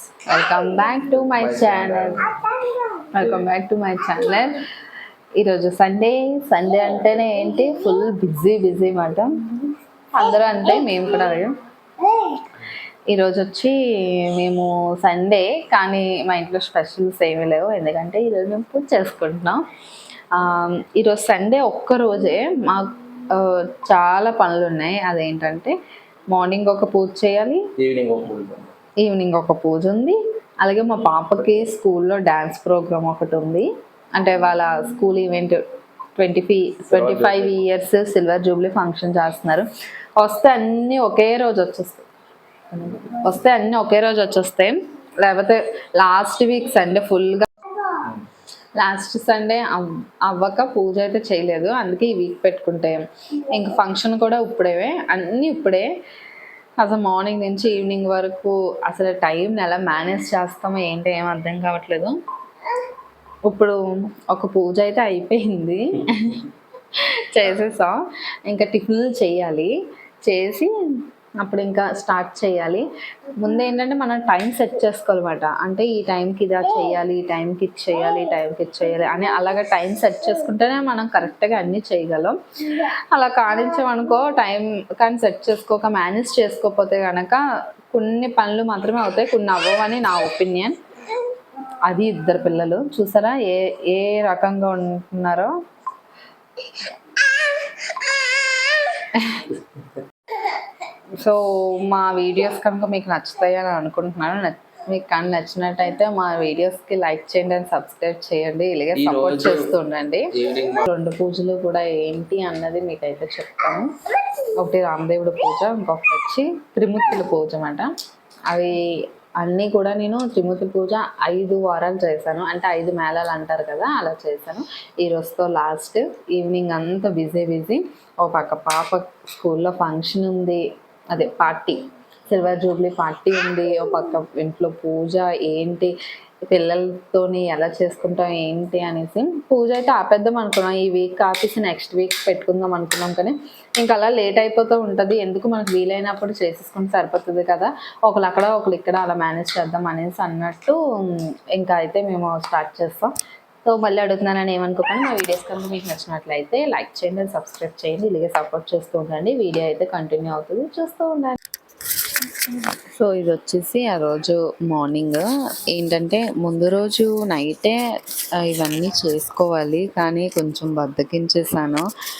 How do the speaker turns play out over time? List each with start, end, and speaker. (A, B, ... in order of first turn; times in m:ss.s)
0:00.3-0:04.6 A
0:01.3-0:02.2 B
0:03.2-0:03.5 B
0:05.4-0:19.6 A
0:20.3-0:25.7 A
0:26.3-0:27.6 A
0:27.8-0:28.7 B
0:29.0-0:33.6 A
0:34.2-0:35.6 A
0:36.2-0:39.6 A
0:36.9-0:37.6 B
0:40.2-0:42.0 A
0:42.7-0:47.9 A
0:48.8-0:55.9 A
0:56.8-1:02.2 A
1:03.4-1:03.8 A
1:04.3-1:06.5 A
1:07.3-1:09.7 A
1:10.2-1:10.7 A
1:11.4-1:12.8 A
1:13.4-1:27.4 A
1:27.9-1:30.8 A
1:31.8-1:35.5 A
1:37.1-1:39.5 A
1:41.1-1:53.9 A
1:48.9-1:49.8 B
1:50.4-1:50.8 B
1:54.6-1:57.9 A
1:58.5-1:58.8 A
1:59.4-2:15.9 A
2:16.4-2:33.1 A
2:33.6-2:41.4 A
2:42.4-2:47.8 A
2:48.4-2:51.8 A